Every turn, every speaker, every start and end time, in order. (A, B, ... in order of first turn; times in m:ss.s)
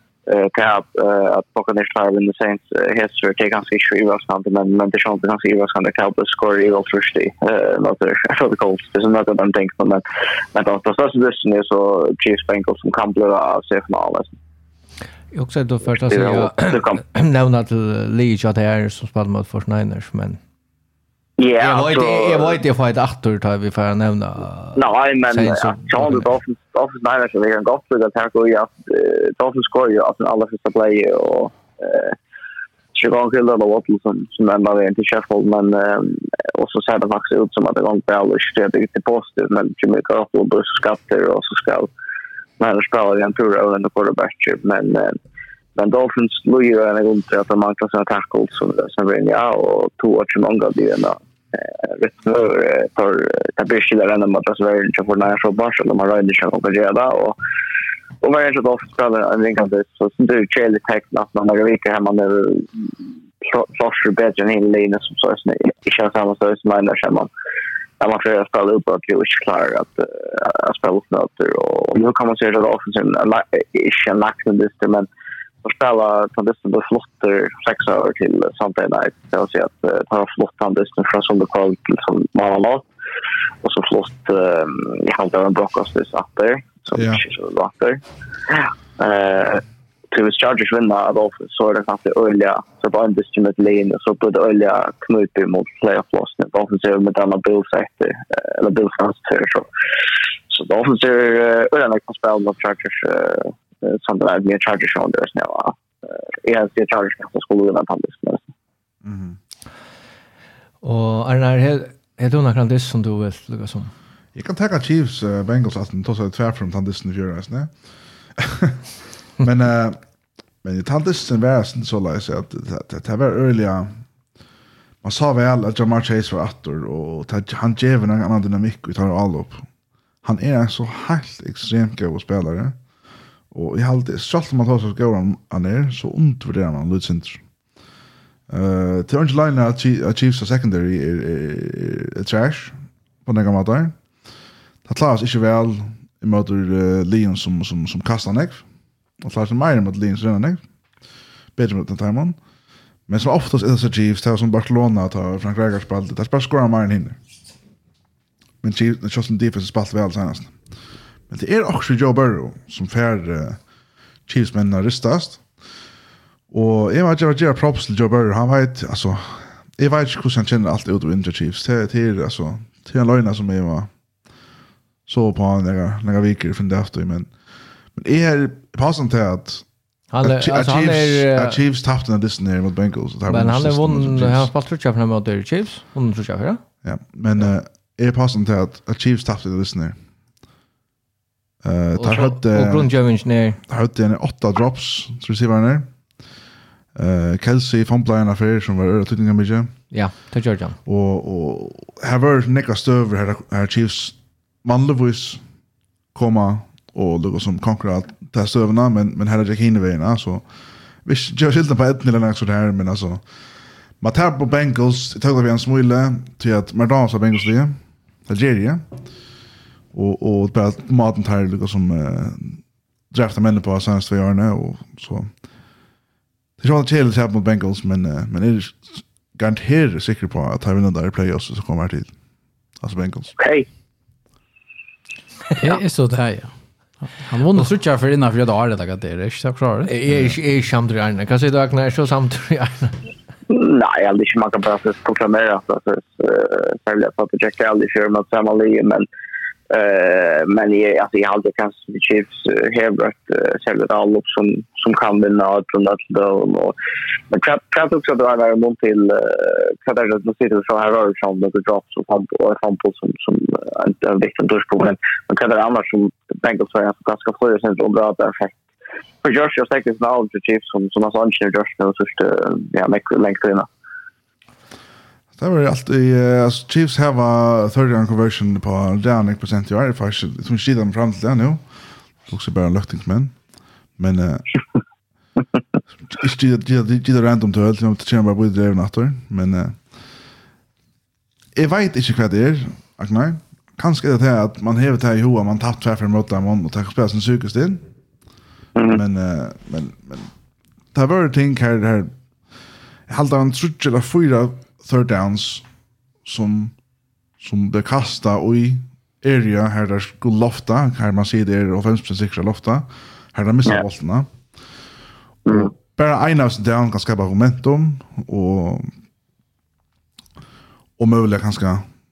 0:00.3-0:10.0 A
0:10.5-0:14.4 A
0:15.3-0:20.4 B
0:16.0-0:17.0 A
0:21.4-0:22.6 A
0:21.6-0:26.3 B
0:24.8-0:32.2 A
0:33.0-0:41.9 A
0:42.6-0:45.2 A
0:45.8-0:57.4 A
0:58.2-1:07.3 A
1:08.0-1:15.1 A
1:15.6-1:22.9 A
1:23.6-1:39.7 A
1:26.9-1:27.2 C
1:40.5-1:48.5 A
1:49.0-1:49.4 C
1:50.8-1:53.9 B
1:54.4-1:57.7 C
1:58.4-1:58.8 C
1:59.4-2:00.0 C
2:00.6-2:04.0 C
2:05.0-2:09.6 C
2:10.2-2:12.8 C
2:13.5-2:17.4 C
2:18.5-2:24.0 C
2:24.8-2:28.6 C
2:29.2-2:30.6 C
2:31.6-2:32.4 C
2:33.1-2:37.2 C
2:38.6-2:40.6 C
2:41.3-2:43.6 C
2:44.3-2:45.4 C
2:46.5-2:53.9 C
2:55.1-2:57.3 C
2:58.0-2:59.6 C
3:00.1-3:01.6 B
3:00.2-3:04.5 C
3:03.3-3:06.6 B
3:06.8-3:10.0 C
3:11.6-3:12.9 C
3:12.0-3:13.6 B
3:13.7-3:15.9 C
3:17.0-3:19.7 C
3:19.9-3:20.8 B
3:20.9-3:25.4 C
3:26.1-3:30.4 C
3:31.0-3:33.2 C
3:34.0-3:38.8 C
3:39.9-3:45.3 C
3:46.6-3:52.1 C
3:52.8-3:53.3 C
3:53.4-3:53.7 A
3:55.6-3:59.9 D
3:59.9-4:03.0 B
4:00.1-4:00.4 C
4:03.5-4:09.1 A
4:09.7-4:16.8 A
4:17.3-4:28.6 A
4:29.2-4:33.7 A
4:35.4-4:41.6 C
4:42.3-4:43.4 C
4:44.0-4:44.4 C
4:46.1-4:49.8 C
4:51.6-4:57.8 C
4:58.8-4:59.0 A
4:58.9-5:00.3 C
5:00.9-5:02.1 C
5:03.1-5:05.6 C
5:06.2-5:06.8 C
5:07.4-5:14.3 C
5:15.5-5:15.7 A
5:15.5-5:18.9 C
5:21.0-5:21.9 C